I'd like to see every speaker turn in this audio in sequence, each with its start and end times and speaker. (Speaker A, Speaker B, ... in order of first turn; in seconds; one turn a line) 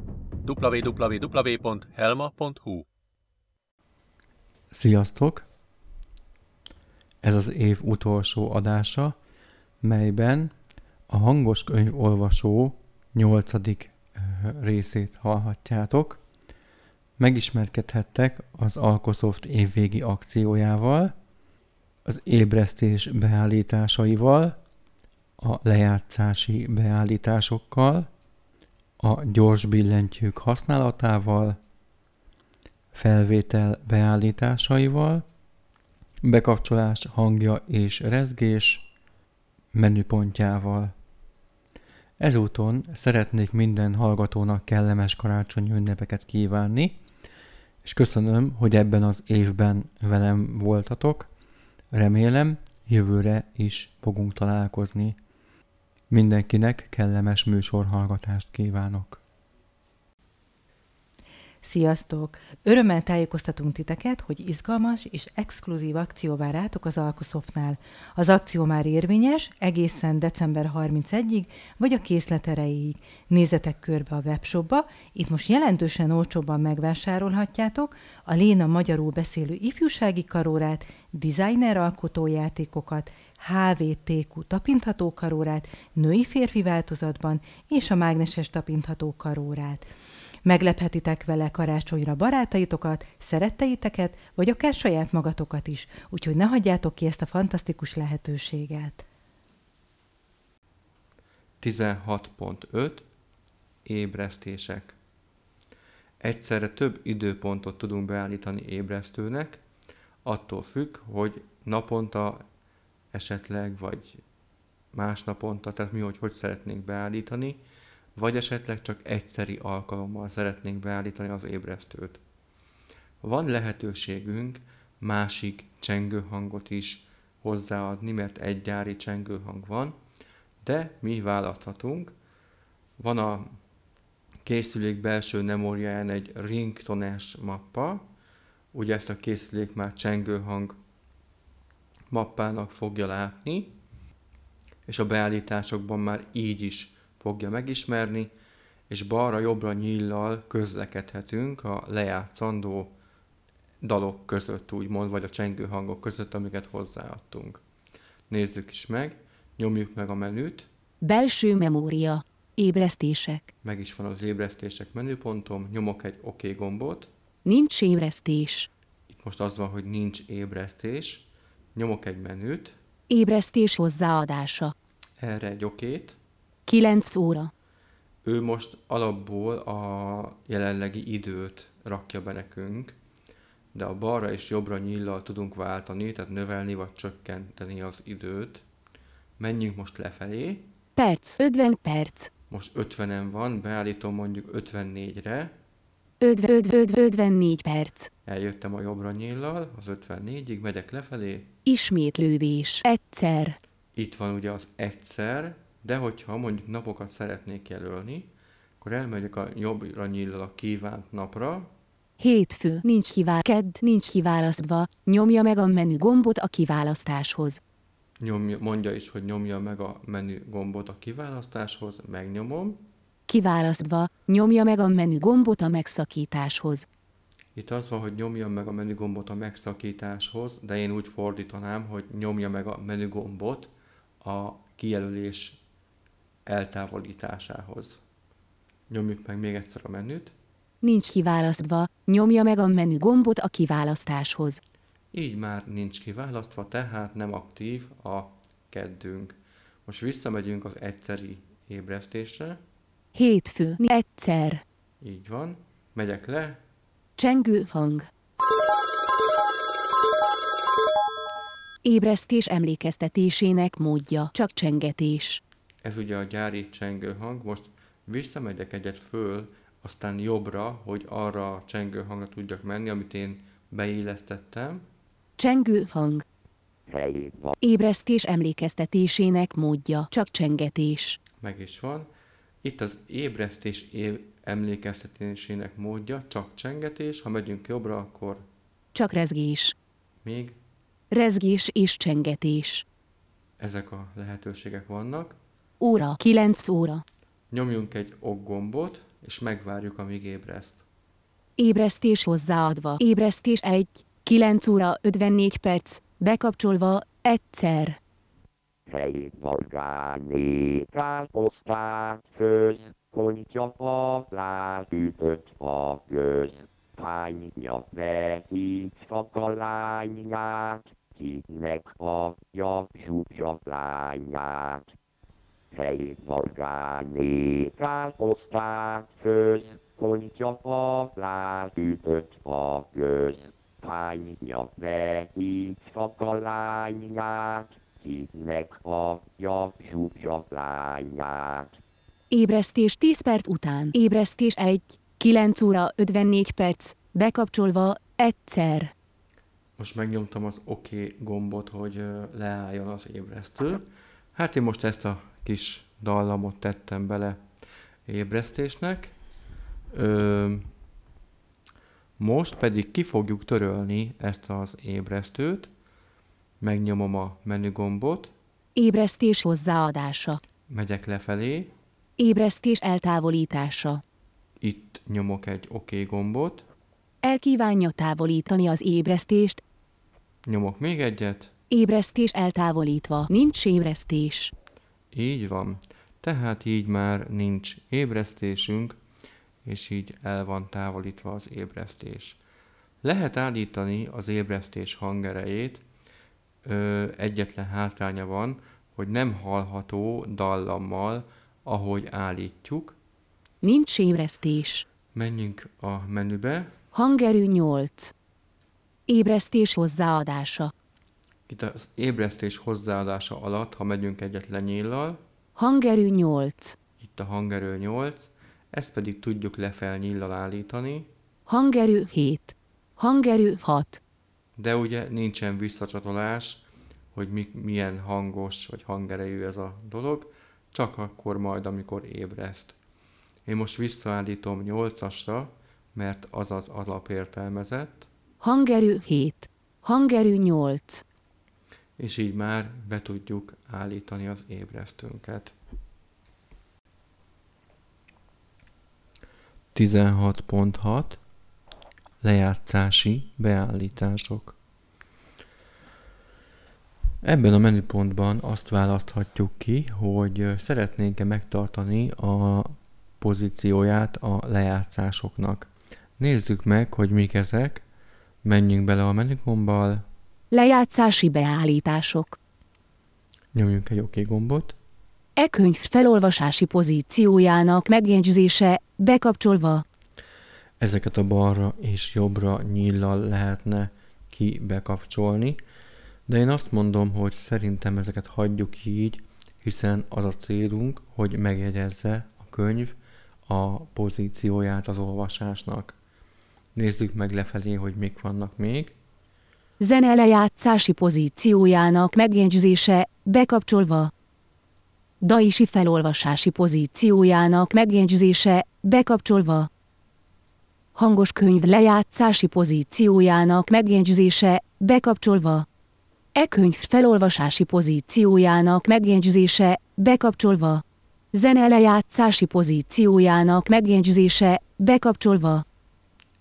Speaker A: 0.5-2.9
Speaker B: 4.7-5.5
Speaker B: 7.2-9.2
Speaker B: 9.8-10.5
Speaker B: 11.1-16.2
Speaker B: 17.2-21.1
Speaker B: 22.1-24.6
Speaker B: 25.4-28.1
Speaker B: 29.0-31.6
Speaker B: 32.9-35.2
Speaker B: 36.2-38.9
Speaker B: 39.7-40.9
Speaker B: 42.2-47.0
Speaker B: 47.8-51.3
Speaker B: 51.9-55.2
Speaker B: 56.1-59.2
Speaker C: 61.6-89.9
Speaker C: 90.5-99.0
Speaker B: 101.6-103.1
Speaker B: 103.9-105.0
Speaker B: 106.2-109.6
Speaker B: 110.2-112.4
Speaker B: 113.1-114.2
Speaker B: 114.9-117.6
Speaker B: 118.2-122.2
Speaker B: 123.2-130.0
Speaker B: 130.6-132.1
Speaker B: 133.0-133.5
Speaker B: 134.4-138.1
Speaker B: 138.7-140.8
Speaker B: 142.1-143.8
Speaker B: 144.9-148.3
Speaker B: 148.9-152.9
Speaker B: 153.8-157.6
Speaker B: 158.3-160.7
Speaker D: 161.0-163.5
Speaker B: 163.6-167.1
Speaker D: 167.4-168.7
Speaker B: 169.1-172.8
Speaker D: 173.1-174.7
Speaker B: 175.2-176.2
Speaker D: 176.7-177.5
Speaker B: 178.2-183.0
Speaker B: 183.7-188.7
Speaker B: 189.4-190.7
Speaker D: 191.0-192.3
Speaker B: 192.5-195.5
Speaker D: 196.2-198.1
Speaker B: 198.3-201.5
Speaker D: 201.7-203.6
Speaker B: 204.0-211.7
Speaker D: 212.2-217.6
Speaker B: 218.2-222.9
Speaker D: 223.3-226.9
Speaker B: 227.6-235.6
Speaker B: 236.5-238.0
Speaker B: 238.9-240.3
Speaker D: 240.8-244.6
Speaker B: 245.1-252.6
Speaker D: 253.1-254.6
Speaker B: 255.0-256.6
Speaker D: 257.2-258.1
Speaker D: 261.8-265.4
Speaker B: 265.8-274.8
Speaker D: 275.4-276.2
Speaker E: 276.9-277.6
Speaker D: 277.6-281.2
Speaker B: 281.4-282.1
Speaker B: 282.6-288.5
Speaker D: 288.9-289.8
Speaker B: 290.2-290.6
Speaker D: 291.1-292.9
Speaker B: 293.6-295.4
Speaker D: 295.8-297.0
Speaker B: 297.5-300.8
Speaker D: 301.6-308.0
Speaker E: 308.9-324.9
Speaker E: 325.7-341.7
Speaker D: 342.3-348.9
Speaker B: 349.8-357.4
Speaker B: 358.1-359.1
Speaker B: 359.9-360.7
Speaker B: 362.2-365.7
Speaker B: 366.6-368.3
Speaker D: 368.8-370.4
Speaker B: 370.7-371.7
Speaker D: 372.2-374.0
Speaker B: 374.6-376.7
Speaker D: 377.2-379.6
Speaker B: 380.5-381.5
Speaker D: 381.7-384.5
Speaker B: 385.1-389.0
Speaker B: 389.6-392.4
Speaker B: 393.0-395.8
Speaker B: 396.7-403.0
Speaker D: 403.6-404.9
Speaker B: 405.1-406.7
Speaker D: 406.9-408.1
Speaker D: 409.1-410.7
Speaker B: 411.5-415.2
Speaker D: 415.6-416.8
Speaker B: 417.0-421.1
Speaker D: 421.5-424.0
Speaker B: 424.6-426.6
Speaker B: 427.1-432.8
Speaker B: 433.5-438.1
Speaker D: 438.4-441.0
Speaker B: 442.0-445.5
Speaker B: 449.7-451.2
Speaker B: 452.2-454.6
Speaker B: 457.2-467.8
Speaker B: 468.4-470.0
Speaker D: 470.5-472.4
Speaker B: 473.5-474.8
Speaker D: 475.4-479.9
Speaker B: 480.8-485.6
Speaker B: 486.3-493.0
Speaker B: 493.5-496.0
Speaker B: 496.8-499.0
Speaker D: 499.8-504.1
Speaker D: 505.2-509.7
Speaker D: 511.0-515.7
Speaker D: 516.4-520.8
Speaker D: 521.3-525.6